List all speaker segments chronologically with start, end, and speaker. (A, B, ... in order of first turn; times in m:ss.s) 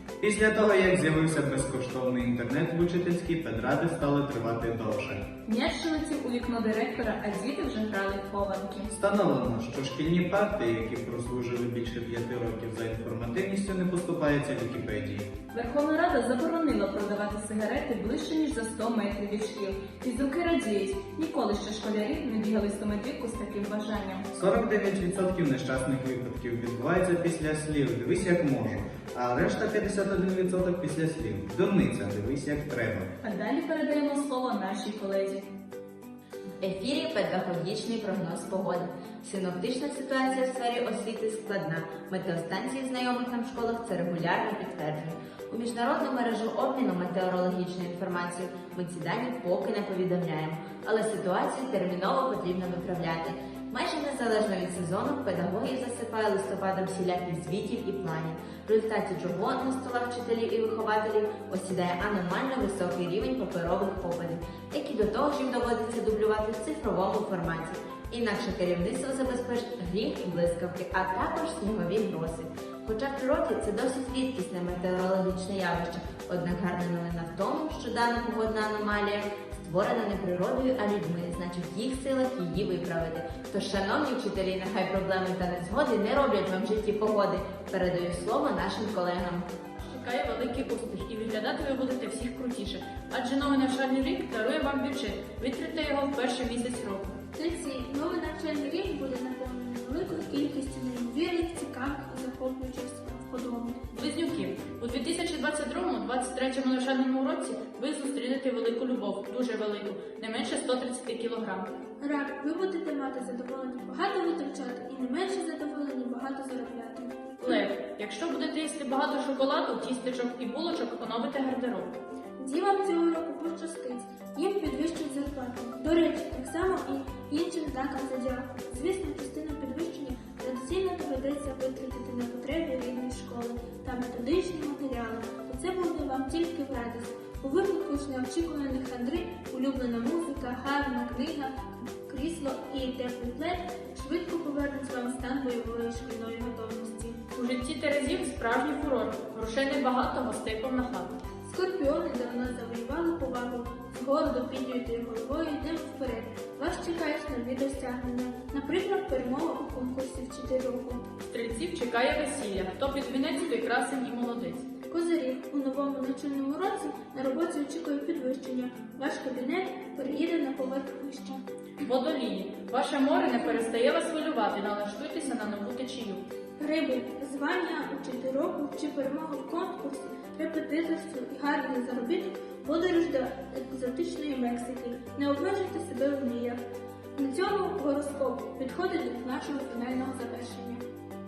0:00.2-0:05.2 A
0:05.5-0:08.9 B
0:08.9-0:15.3 A
0:15.5-0:24.3 B
0:24.3-0:33.1 A
0:33.2-0:35.5 B
0:36.6-1:29.5 C
1:29.9-1:37.2 D
1:37.3-1:43.8 E
1:43.9-1:51.7 D
1:52.0-1:57.6 E
1:57.4-2:01.9 D
2:02.4-2:27.2 E
2:27.3-2:31.2 D
2:31.4-2:41.0 E
2:41.3-2:44.7 D
2:44.9-2:51.4 E
2:51.8-2:56.2 D
2:56.6-3:06.6 E
3:07.2-3:10.8 E